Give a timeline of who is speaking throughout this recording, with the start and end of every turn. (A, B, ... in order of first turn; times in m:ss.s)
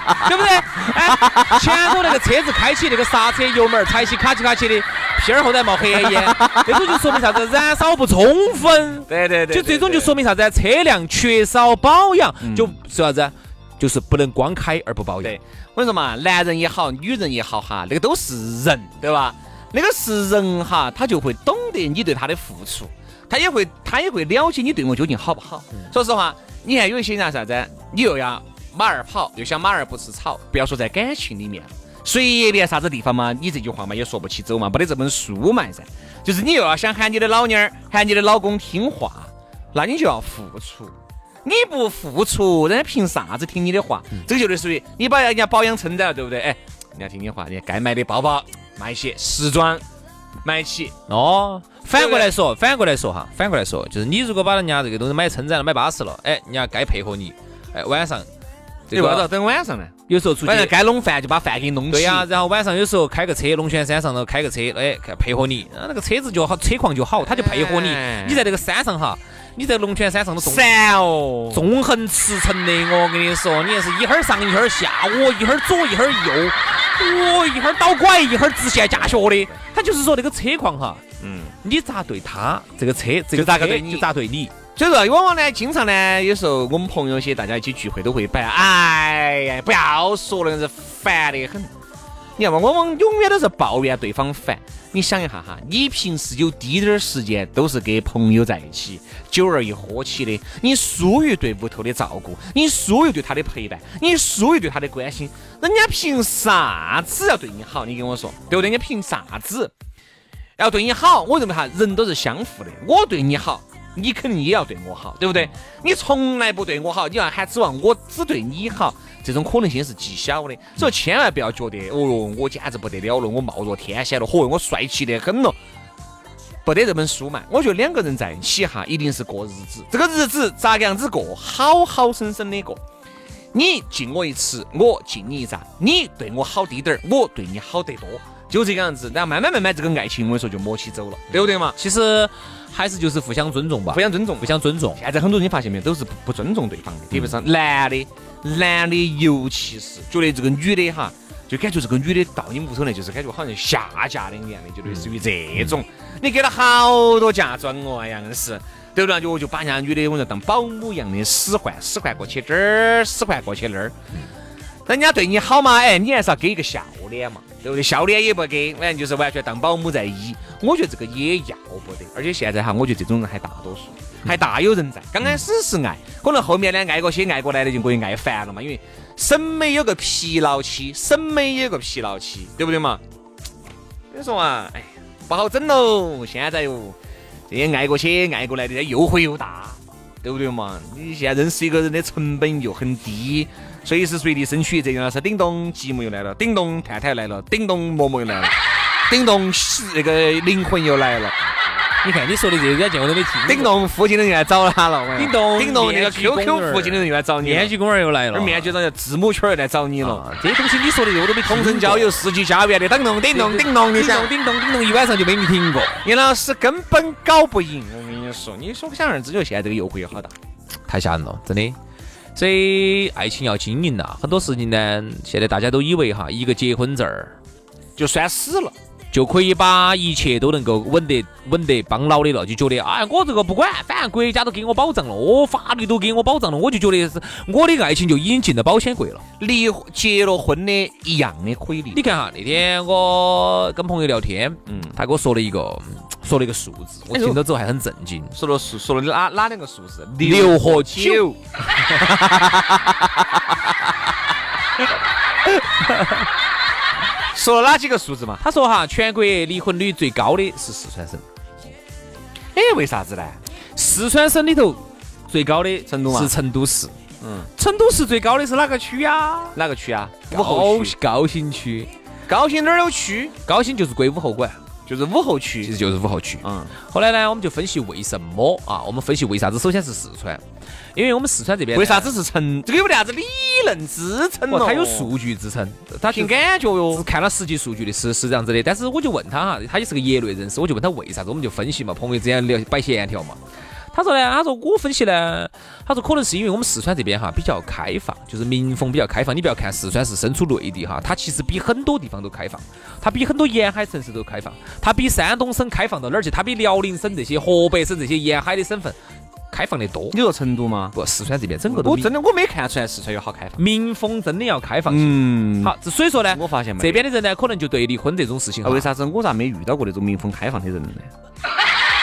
0:00.2-0:15.4 A
0:06.0-0:07.1 B
0:09.1-0:10.2 B
0:12.4-0:12.8 B
0:15.2-0:49.8 B
0:50.4-0:50.9 B
0:51.1-0:58.3 A
0:51.9-0:52.4 B
0:58.9-0:59.3 A
0:58.9-0:59.9 B
1:00.1-1:00.7 A
1:00.4-1:02.3 B
1:01.9-1:10.7 A
1:07.2-1:08.4 B
1:10.4-1:11.6 B
1:11.5-1:21.0 A
1:18.9-1:19.5 B
1:21.2-1:21.5 B
1:21.6-1:24.5 A
1:23.3-1:24.1 B
1:24.8-1:31.7 B
1:32.4-1:49.7 B
1:50.6-2:05.6 B
2:06.6-2:12.8 B
2:13.5-2:21.8 B
2:21.3-2:25.0 A
2:23.9-2:43.9 B
2:34.9-2:35.8 A
2:44.9-3:03.0 B
3:04.1-3:07.0 B
3:07.5-3:18.6 B
3:19.1-3:21.4 B
3:22.0-3:23.7 A
3:23.5-3:27.7 B
3:25.2-3:28.8 A
3:28.3-3:30.2 B
3:30.0-3:32.2 A
3:31.4-3:34.3 B
3:33.3-3:36.0 A
3:36.0-3:40.3 B
3:40.9-3:41.8 A
3:42.4-3:47.4 A
3:48.0-3:48.8 B
3:49.1-3:59.2 A
3:59.4-4:02.0 B
4:01.9-4:08.3 A
4:04.7-4:05.0 B
4:07.1-4:07.4 B
4:08.3-4:11.4 B
4:10.2-4:11.2 A
4:12.0-4:13.0 B
4:17.3-4:18.4 B
4:18.4-4:21.2 A
4:22.6-4:23.4 B
4:23.8-4:26.9 A
4:25.9-4:26.3 B
4:27.2-4:27.5 B
4:27.6-4:29.6 A
4:29.6-4:31.0 B
4:30.3-4:31.9 A
4:32.3-4:33.3 B
4:33.4-4:34.6 A
4:34.9-4:35.7 B
4:35.6-4:40.4 A
4:36.4-4:36.7 B
4:41.0-4:42.1 A
4:41.7-4:45.1 B
4:44.5-4:46.4 A
4:46.1-4:47.1 B
4:46.9-4:53.4 A
4:53.9-5:09.0 A
5:09.5-5:10.2 A
5:10.1-5:11.0 B
5:10.9-5:12.1 A
5:11.7-5:13.6 B
5:13.6-5:18.9 A
5:14.9-5:15.8 B
5:16.3-5:17.0 B
5:18.6-5:21.1 B